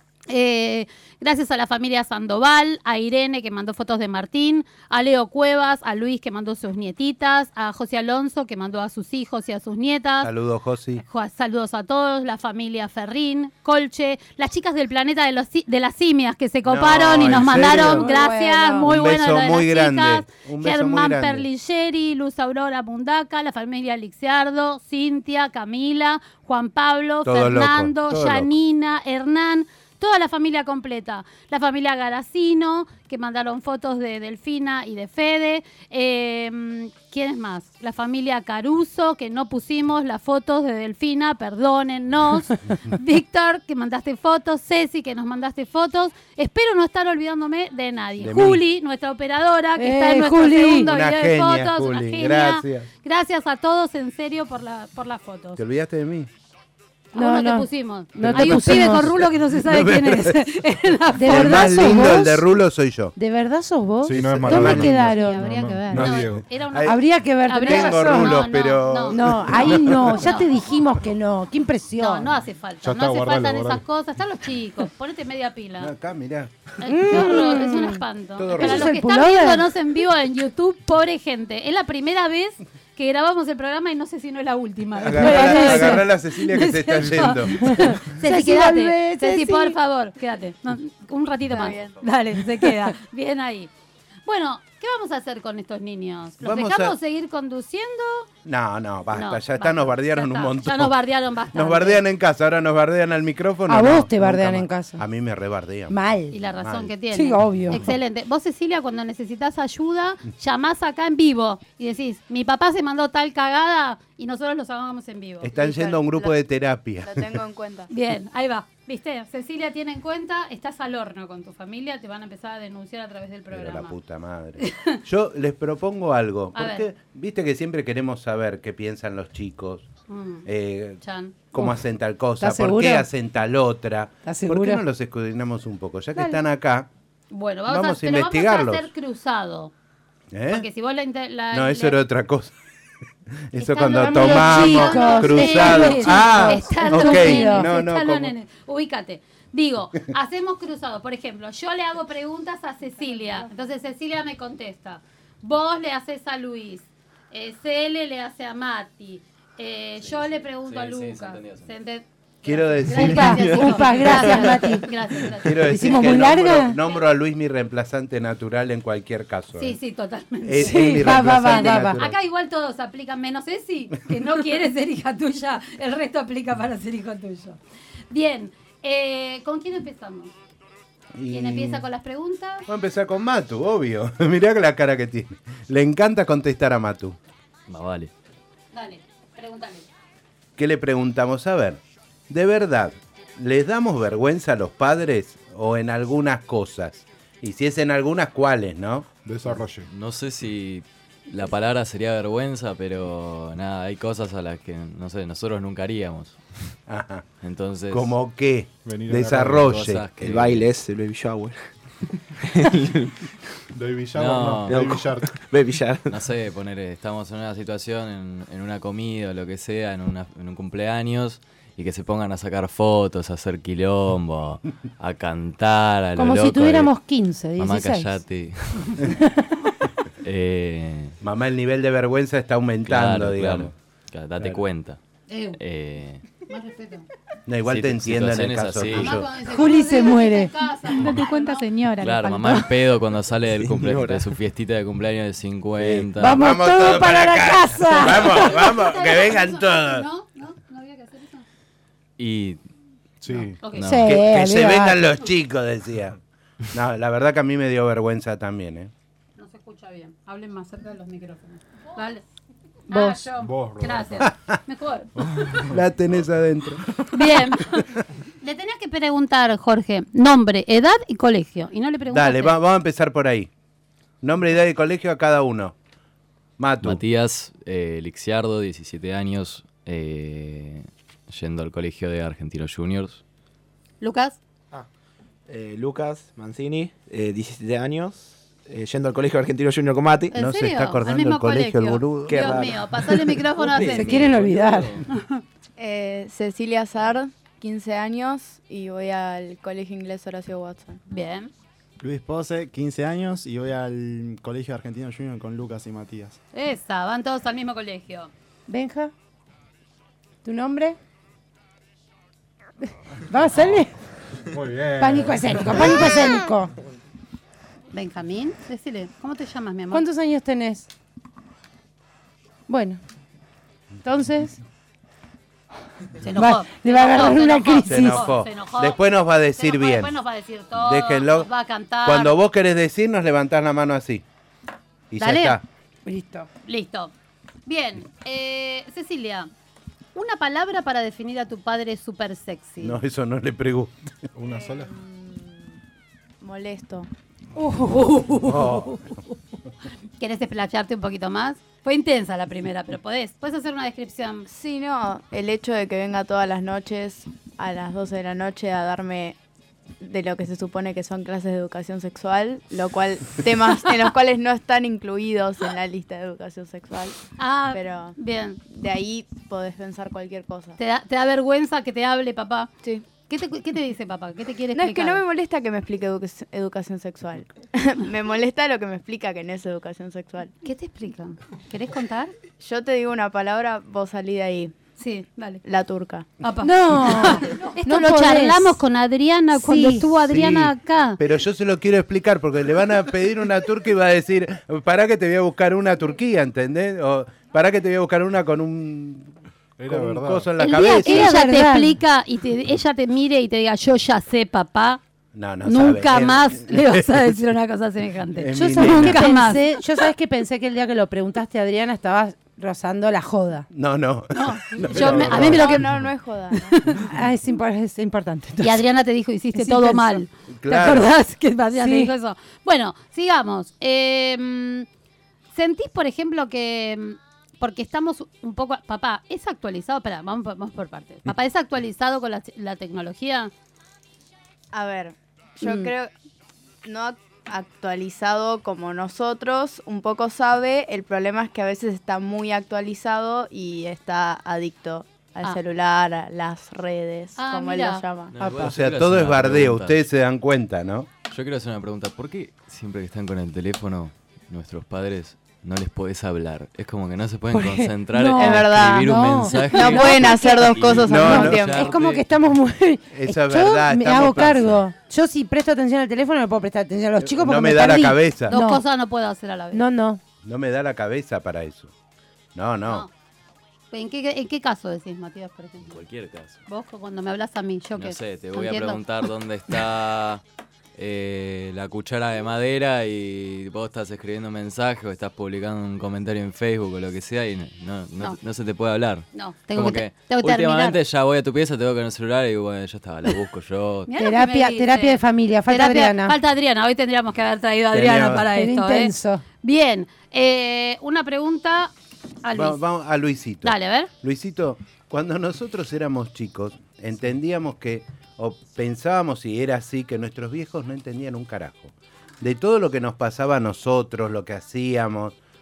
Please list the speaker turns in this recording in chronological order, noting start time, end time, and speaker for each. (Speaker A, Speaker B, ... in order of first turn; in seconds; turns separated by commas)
Speaker A: 0.3-10.3, Speaker B: 10.2-11.0, Speaker A: 11.0-55.6, Speaker B: 16.6-18.1, Speaker C: 17.2-18.9, Speaker B: 18.8-21.5, Speaker B: 27.2-28.5, Speaker B: 48.2-48.6, Speaker C: 49.8-50.9, Speaker B: 50.8-52.9, Speaker B: 55.6-56.3, Speaker A: 57.1-62.1, Speaker C: 57.1-59.1, Speaker B: 58.2-60.4, Speaker C: 61.1-62.5, Speaker B: 61.2-63.1, Speaker C: 63.1-65.5, Speaker D: 64.0-66.5, Speaker B: 64.3-65.2, Speaker E: 65.1-66.0, Speaker B: 65.9-67.0, Speaker A: 65.9-70.5, Speaker C: 66.8-68.4, Speaker B: 67.6-70.1, Speaker C: 69.1-72.3, Speaker A: 72.0-75.9, Speaker D: 72.8-73.8, Speaker B: 75.8-76.5, Speaker A: 76.8-93.7, Speaker C: 76.8-78.0, Speaker B: 78.4-79.0, Speaker C: 78.5-79.7, Speaker B: 85.0-87.9, Speaker C: 85.1-86.0, Speaker C: 87.6-89.8, Speaker F: 91.5-92.0, Speaker A: 94.2-98.3, Speaker B: 96.4-97.0, Speaker B: 98.4-101.0, Speaker A: 99.1-102.0, Speaker B: 101.5-106.0, Speaker C: 103.7-105.0, Speaker C: 105.9-106.4, Speaker A: 106.3-115.5, Speaker B: 106.6-106.9, Speaker C: 107.1-107.9, Speaker B: 115.4-117.2, Speaker F: 115.5-116.4, Speaker F: 117.0-117.9, Speaker A: 117.9-124.0, Speaker B: 123.5-129.9, Speaker A: 124.6-125.0, Speaker A: 126.5-126.8, Speaker A: 130.1-130.4, Speaker B: 130.4-136.9, Speaker A: 131.0-131.4, Speaker C: 132.4-133.1, Speaker C: 134.2-134.8, Speaker A: 137.3-139.7, Speaker B: 137.7-138.9, Speaker B: 140.3-140.7, Speaker A: 140.5-142.0, Speaker B: 141.5-142.6, Speaker B: 143.5-148.3, Speaker A: 143.6-165.8, Speaker C: 143.9-147.7, Speaker G: 160.0-161.7, Speaker B: 162.4-163.9, Speaker C: 162.9-164.9, Speaker B: 165.4-169.8, Speaker C: 165.6-166.8, Speaker A: 169.6-177.6, Speaker B: 170.4-172.2, Speaker C: 170.6-172.0, Speaker A: 178.1-180.3, Speaker B: 181.1-181.8, Speaker A: 181.3-182.7, Speaker B: 182.7-187.2, Speaker G: 187.7-188.1, Speaker A: 188.7-189.8, Speaker B: 190.6-199.1, Speaker D: 199.2-199.9, Speaker G: 199.4-206.4, Speaker B: 206.9-207.3, Speaker G: 207.4-208.1, Speaker B: 207.9-210.0, Speaker D: 208.8-209.7, Speaker G: 209.4-210.7, Speaker H: 210.2-211.7, Speaker H: 212.4-213.1, Speaker D: 213.7-215.4, Speaker G: 214.1-214.8, Speaker H: 214.7-216.2, Speaker G: 216.1-227.0, Speaker C: 226.2-228.1, Speaker G: 227.6-229.0, Speaker C: 229.2-229.5, Speaker G: 230.2-231.2, Speaker B: 231.2-233.7, Speaker G: 232.8-235.0, Speaker A: 235.3-235.6, Speaker G: 235.6-236.2, Speaker A: 236.5-237.1, Speaker B: 237.5-239.3, Speaker G: 237.7-239.2, Speaker A: 239.0-241.7, Speaker C: 239.5-240.5, Speaker E: 240.8-242.8, Speaker G: 242.0-246.4, Speaker H: 243.6-244.3, Speaker B: 245.8-250.1, Speaker C: 246.2-248.7, Speaker A: 248.1-251.4, Speaker G: 252.2-252.6, Speaker D: 253.2-253.6, Speaker A: 253.6-254.0, Speaker G: 253.7-254.1, Speaker C: 253.8-255.0, Speaker B: 254.0-256.2, Speaker B: 256.7-258.9, Speaker A: 259.4-262.2, Speaker A: 262.9-265.6, Speaker C: 262.9-263.2, Speaker D: 263.3-264.3, Speaker D: 265.3-265.8, Speaker B: 265.7-267.3, Speaker A: 267.1-267.8, Speaker A: 268.4-272.6, Speaker B: 272.1-273.5, Speaker B: 274.2-275.7, Speaker B: 276.6-277.0, Speaker G: 276.8-283.2, Speaker A: 284.0-284.4, Speaker H: 285.5-290.3, Speaker A: 290.3-294.2, Speaker B: 290.3-292.6, Speaker H: 292.3-294.4, Speaker G: 293.7-295.0, Speaker C: 293.8-295.0, Speaker A: 295.1-295.4, Speaker F: 295.8-301.0, Speaker A: 301.1-301.5, Speaker I: 302.0-306.4, Speaker A: 306.5-308.3, Speaker C: 308.7-309.1, Speaker C: 310.4-311.0, Speaker C: 313.3-313.9, Speaker D: 313.5-313.8, Speaker D: 314.5-316.1, Speaker C: 315.0-316.7, Speaker A: 317.9-320.0, Speaker C: 319.9-320.9, Speaker C: 322.7-323.0, Speaker C: 324.0-324.6, Speaker A: 326.2-329.0, Speaker C: 326.3-328.3, Speaker B: 327.8-330.1, Speaker A: 329.5-332.3, Speaker B: 330.7-331.5, Speaker B: 332.0-334.2, Speaker B: 335.1-335.6, Speaker A: 335.2-335.6, Speaker C: 336.1-336.5, Speaker A: 336.6-337.1, Speaker A: 337.6-339.5, Speaker A: 340.1-343.0, Speaker B: 342.8-344.3, Speaker D: 344.3-344.9, Speaker F: 344.5-345.7, Speaker F: 346.4-347.1, Speaker C: 347.6-348.7, Speaker A: 347.6-348.8, Speaker B: 348.4-349.1, Speaker A: 350.2-354.4, Speaker F: 354.5-359.4, Speaker F: 360.0-367.2, Speaker A: 367.4-368.6, Speaker F: 367.7-370.8, Speaker A: 370.8-372.7, Speaker A: 373.3-375.2, Speaker F: 374.7-380.5, Speaker A: 380.6-382.3, Speaker F: 382.6-384.8, Speaker A: 385.0-385.6, Speaker F: 385.6-386.3, Speaker A: 386.4-391.2, Speaker C: 386.6-388.8, Speaker C: 389.5-390.2, Speaker B: 390.2-399.3, Speaker D: 399.8-400.5, Speaker B: 399.9-401.3, Speaker A: 400.6-405.0, Speaker C: 400.9-401.9, Speaker B: 405.3-407.2, Speaker A: 405.6-409.9, Speaker B: 408.4-409.2, Speaker C: 408.5-413.7, Speaker B: 413.7-415.8, Speaker A: 414.3-415.8, Speaker F: 414.9-416.8, Speaker C: 417.1-418.8, Speaker A: 418.6-424.9, Speaker C: 419.5-420.2, Speaker B: 420.5-421.1, Speaker C: 421.7-422.1, Speaker A: 425.5-433.5, Speaker F: 434.7-436.1, Speaker A: 435.6-435.9, Speaker F: 436.8-448.3, Speaker A: 447.4-448.0, Speaker G: 448.3-450.0, Speaker B: 448.4-451.1, Speaker G: 451.3-462.2, Speaker C: 457.5-468.8, Speaker F: 458.4-461.9, Speaker B: 461.1-461.6, Speaker B: 463.1-464.8, Speaker B: 467.2-468.5, Speaker A: 468.5-469.8, Speaker C: 469.7-470.2, Speaker B: 470.4-471.9, Speaker B: 472.5-473.1, Speaker A: 473.9-475.9, Speaker G: 475.9-476.6, Speaker A: 476.7-479.0, Speaker G: 478.0-480.4, Speaker G: 480.9-494.1, Speaker A: 489.3-491.0, Speaker A: 494.1-501.9, Speaker C: 494.1-496.4, Speaker B: 497.9-498.5, Speaker C: 498.5-499.4, Speaker A: 502.4-502.8, Speaker B: 502.5-515.3, Speaker A: 503.6-504.1